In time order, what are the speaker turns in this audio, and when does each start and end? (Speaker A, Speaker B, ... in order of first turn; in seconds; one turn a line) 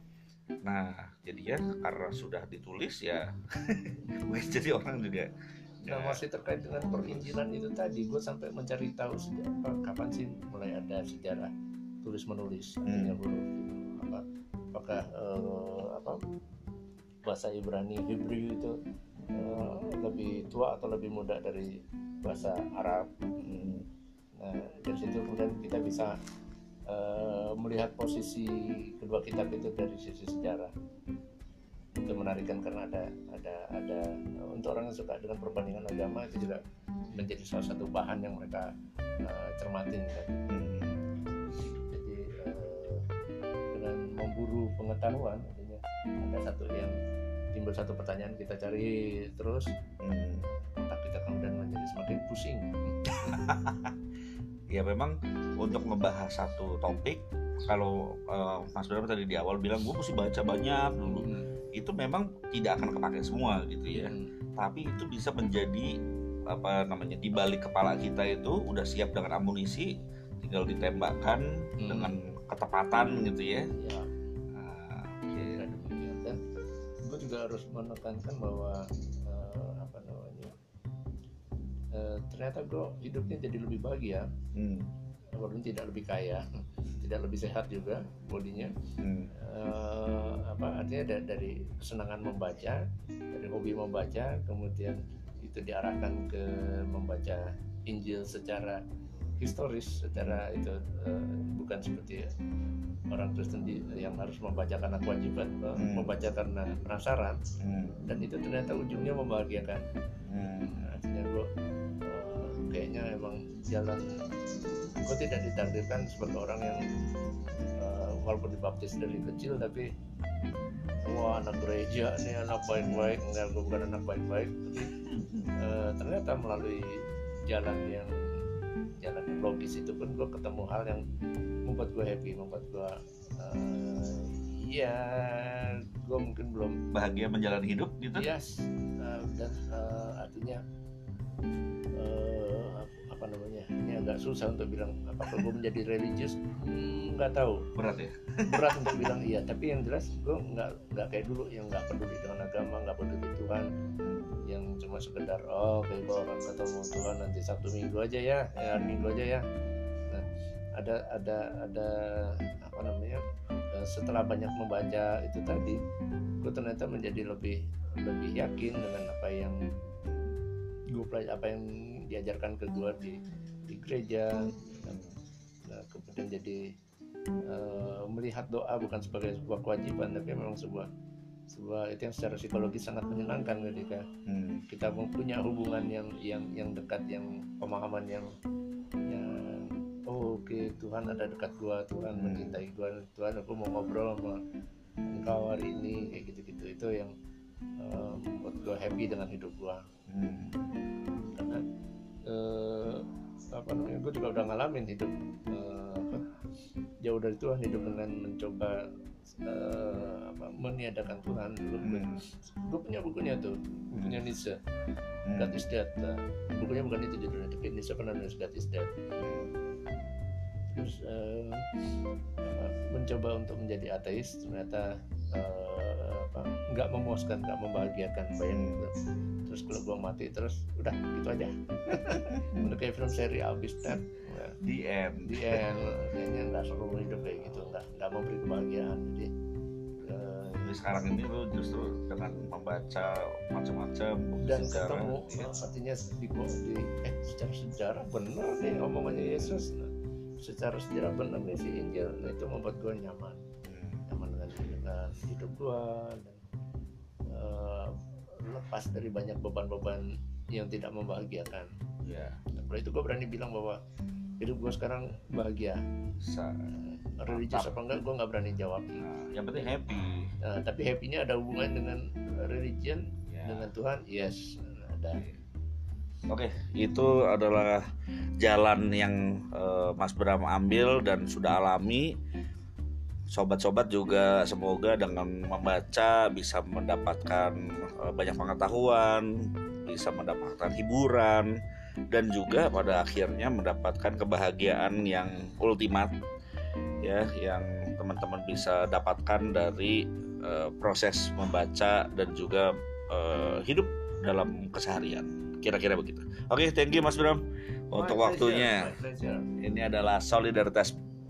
Speaker A: 0.6-5.3
Speaker A: 5.8-6.2
Speaker B: 5.9-11.5
Speaker A: 6.8-7.4
Speaker B: 12.0-14.2
Speaker A: 12.9-13.2
Speaker B: 14.7-16.2
Speaker B: 17.2-18.8
Speaker A: 19.3-19.6
Speaker B: 19.3-23.1
Speaker A: 23.4-23.9
Speaker B: 24.4-26.1
Speaker B: 26.9-30.7
Speaker B: 32.1-36.6
Speaker B: 37.1-38.7
Speaker B: 39.2-40.4
Speaker A: 40.5-41.0
Speaker B: 41.9-43.1
Speaker B: 43.7-47.0
Speaker B: 47.5-49.8
Speaker A: 50.0-50.5
Speaker B: 50.5-52.9
Speaker A: 53.1-54.0
Speaker A: 54.7-65.9
Speaker B: 61.0-61.5
Speaker B: 63.9-64.3
Speaker A: 66.5-73.7
Speaker B: 71.8-72.1
Speaker B: 73.8-74.1
Speaker A: 74.5-75.6
Speaker B: 75.3-76.4
Speaker B: 77.0-80.5
Speaker B: 81.9-84.3
Speaker A: 84.5-84.9
Speaker B: 85.4-88.7
Speaker A: 89.0-89.3
Speaker B: 89.3-98.8
Speaker B: 99.4-102.3
Speaker A: 100.2-100.4
Speaker B: 103.1-107.5
Speaker A: 105.8-106.1
Speaker A: 107.6-108.0
Speaker B: 108.0-109.8
Speaker A: 110.3-110.9
Speaker B: 110.6-111.5
Speaker B: 112.0-114.1
Speaker B: 115.0-116.9
Speaker B: 117.8-119.9
Speaker B: 121.0-124.9
Speaker A: 122.8-123.2
Speaker A: 125.0-125.5
Speaker B: 125.6-128.5
Speaker B: 129.0-131.0
Speaker B: 131.7-136.8
Speaker A: 136.9-138.3
Speaker B: 138.2-140.6
Speaker B: 142.0-147.7
Speaker A: 147.8-149.2
Speaker B: 148.4-153.7
Speaker A: 154.0-154.4
Speaker B: 154.4-159.4
Speaker A: 158.8-159.1
Speaker B: 160.1-163.2
Speaker B: 163.7-165.8
Speaker B: 166.4-169.6
Speaker A: 170.1-170.4
Speaker B: 170.9-175.0
Speaker A: 174.7-175.2
Speaker B: 175.7-176.7
Speaker B: 177.5-180.9
Speaker B: 181.5-184.1
Speaker A: 184.3-184.6
Speaker B: 184.7-188.3
Speaker B: 189.1-194.4
Speaker A: 192.1-192.6
Speaker B: 195.1-197.1
Speaker B: 197.8-199.8
Speaker A: 200.1-200.8
Speaker B: 201.3-201.6
Speaker B: 202.3-206.2
Speaker B: 207.0-214.6
Speaker A: 211.8-212.2
Speaker A: 213.9-214.2
Speaker A: 215.2-215.6
Speaker B: 215.3-218.9
Speaker A: 219.2-219.5
Speaker B: 220.7-221.7
Speaker B: 222.4-234.6
Speaker A: 228.5-228.9
Speaker A: 232.3-232.8
Speaker A: 234.6-235.8
Speaker B: 235.3-239.3
Speaker B: 240.0-240.8
Speaker A: 240.6-245.5
Speaker B: 244.3-253.5
Speaker A: 249.1-249.6
Speaker A: 253.7-254.1
Speaker B: 254.1-256.4
Speaker B: 257.3-261.7
Speaker A: 262.0-262.4
Speaker B: 262.6-263.8
Speaker B: 264.4-265.8
Speaker A: 266.2-266.7
Speaker B: 266.8-269.0
Speaker A: 267.3-267.8
Speaker A: 269.0-270.3
Speaker B: 270.4-275.2
Speaker A: 273.3-273.7
Speaker A: 275.1-275.4
Speaker A: 276.3-277.9
Speaker A: 278.4-282.1
Speaker A: 283.3-291.6
Speaker A: 292.1-296.1
Speaker A: 297.0-308.9
Speaker B: 307.9-309.5
Speaker A: 309.6-310.9